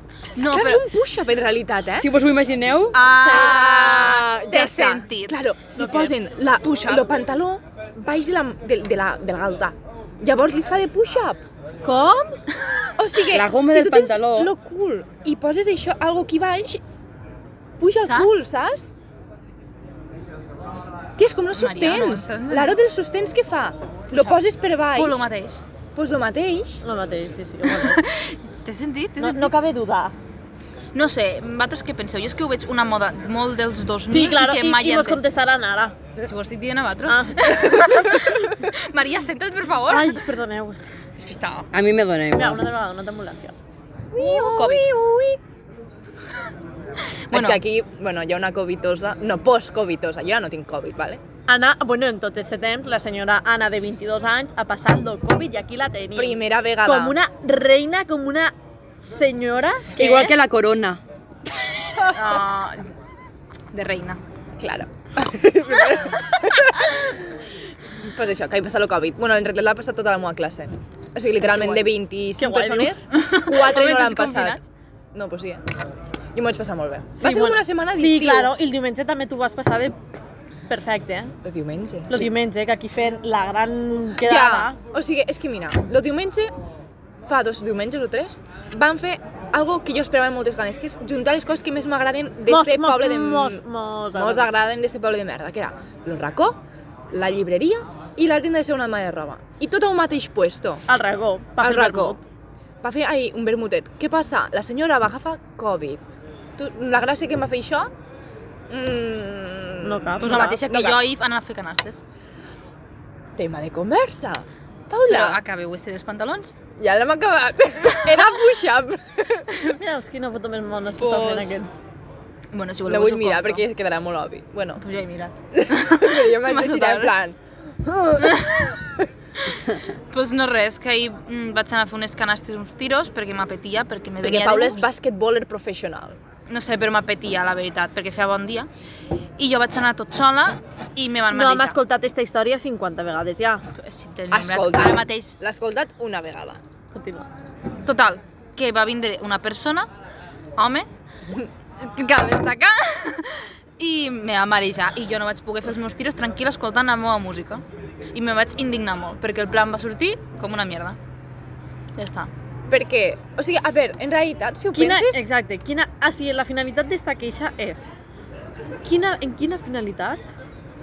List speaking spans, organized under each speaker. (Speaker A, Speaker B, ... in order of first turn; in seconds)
Speaker A: 0.3-0.8, 2.9-5.4, 6.6-7.0, 18.0-18.5, 21.5-22.8, 24.1-24.4, 24.9-25.6, 27.8-29.5, 30.9-35.3, 36.2-40.2, 41.2-41.7, 44.1-44.9, 47.3-47.6, 62.1-62.9, 63.7-64.2, 73.1-74.6, 110.2-112.0, 115.0-116.5, 121.0-121.5, 122.5-123.6, 124.8-127.2, 128.2-128.8, 129.5-134.8, 136.5-138.7, 139.4-141.8, 143.7-145.3, 147.8-149.9, 150.6-150.8, 151.8-157.6, 158.1-161.0, 162.0-162.3
Speaker B: 0.4-2.1, 3.1-4.1, 5.2-11.4, 13.0-16.8, 17.8-18.9, 21.2-25.2, 25.9-26.8, 44.1-45.4, 47.3-51.2, 56.1-57.2, 64.6-67.0, 68.0-74.6, 75.1-75.7, 76.3-78.5, 81.4-82.3, 84.2-86.5, 87.2-93.6, 94.1-100.8, 101.6-102.2, 102.8-107.9, 108.7-111.0, 113.3-115.4, 116.8-119.6, 122.8-124.8, 125.6-128.7, 134.2-136.2, 144.3-146.6, 162.7-165.2
Speaker C: 1.9-3.0, 13.3-14.5, 41.7-42.6, 60.0-61.0
Speaker D: 3.1-5.0, 5.8-6.1, 11.8-12.4, 26.8-28.0, 29.2-30.1, 34.1-36.0, 37.1-38.2, 39.9-40.8, 42.3-43.5, 51.5-60.4, 71.4-73.0, 77.2-79.9, 80.7-81.3, 82.1-84.8, 92.5-94.5, 100.9-102.2, 109.8-110.5, 119.7-121.7, 141.3-143.6, 146.9-147.3, 164.7-167.9, 168.8-170.2